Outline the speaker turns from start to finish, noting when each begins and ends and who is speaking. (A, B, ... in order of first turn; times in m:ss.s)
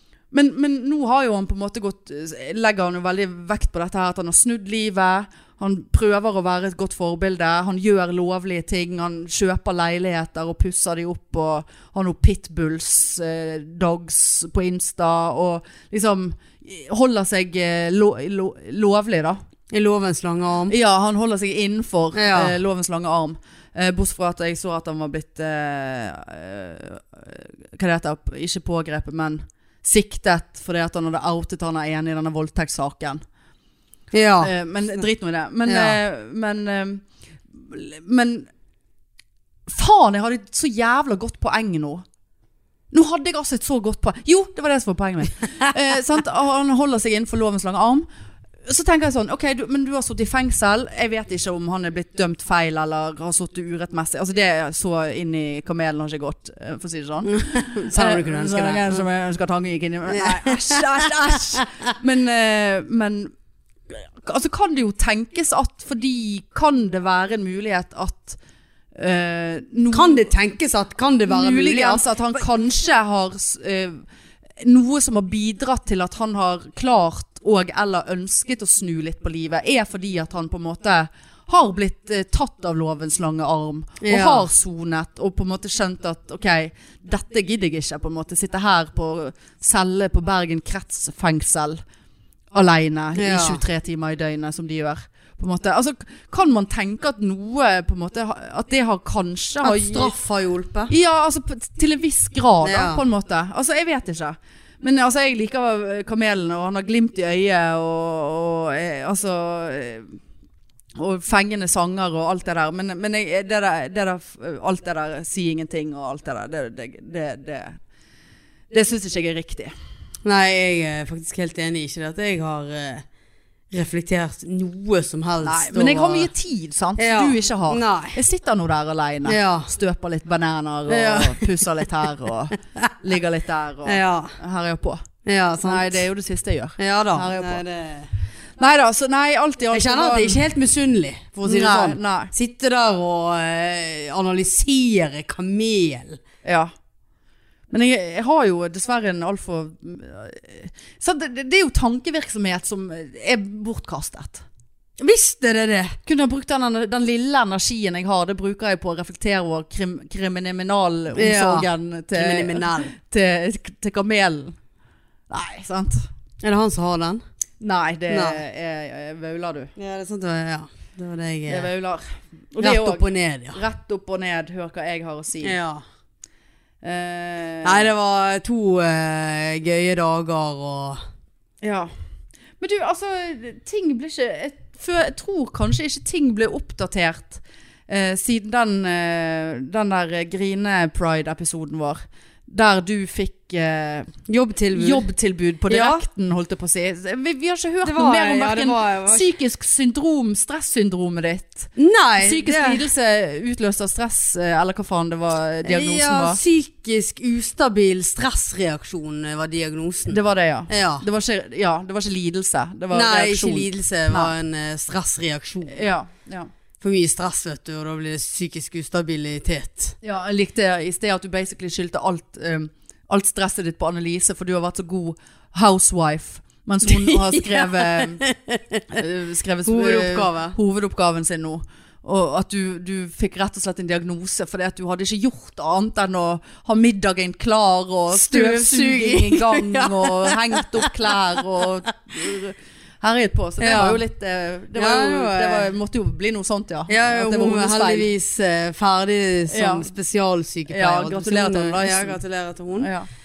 0:00.3-0:19.4 A
0:19.7-0:20.7 B
0:20.7-0:33.2 A
0:22.1-0:22.6 B
0:34.1-0:34.5 B
0:34.4-0:38.5 A
0:35.6-0:36.0 B
0:39.7-0:42.0 A
0:42.9-0:48.1 A
0:48.6-1:03.3 A
0:57.3-0:59.0 B
1:00.1-1:01.6 B
1:03.9-1:08.4 A
1:09.0-1:10.3 A
1:09.9-1:12.4 B
1:11.3-1:14.0 A
1:14.6-1:31.8 A
1:24.0-1:24.5 B
1:32.5-1:40.1 A
1:33.2-1:33.6 B
1:39.6-1:40.9 B
1:40.9-1:50.2 A
1:42.6-1:43.0 B
1:51.0-1:57.8 A
1:58.7-1:59.7 A
2:00.2-2:03.0 B
2:03.7-2:06.3 B
2:05.4-2:15.0 A
2:07.0-2:08.2 B
2:09.2-2:09.7 B
2:10.9-2:12.1 B
2:13.8-2:14.3 B
2:15.2-2:16.0 B
2:15.6-2:17.6 A
2:16.8-2:18.1 B
2:18.6-2:20.4 A
2:19.7-2:26.2 B
2:21.4-2:22.3 A
2:26.4-2:26.7 A
2:27.7-2:34.4 A
2:35.0-2:36.0 B
2:36.0-2:44.6 A
2:41.1-2:42.9 B
2:45.3-2:46.1 A
2:46.4-2:47.2 B
2:47.6-2:49.7 A
2:48.1-2:48.4 B
2:49.8-2:51.7 B
2:51.5-2:55.6 A
2:52.6-2:53.6 B
2:55.4-2:55.8 B
2:56.8-2:57.9 A
2:57.6-3:01.0 B
3:01.6-3:01.9 A
3:02.6-3:14.1 A
3:14.3-3:15.0 B
3:14.7-3:26.4 A
3:15.7-3:16.0 B
3:17.8-3:19.3 B
3:21.8-3:22.8 B
3:25.6-3:30.2 B
3:30.1-3:34.3 A
3:30.7-3:31.0 B
3:32.9-3:35.8 B
3:35.7-3:36.5 A
3:36.8-3:39.9 B
3:40.0-3:48.2 A
3:46.8-3:49.0 B
3:48.9-4:08.1 A
3:49.6-3:50.6 B
3:58.1-4:01.6 B
4:03.6-4:04.0 B
4:04.7-4:05.7 B
4:06.9-4:12.9 B
4:09.5-4:09.9 A
4:10.7-4:12.2 A
4:12.8-4:13.1 A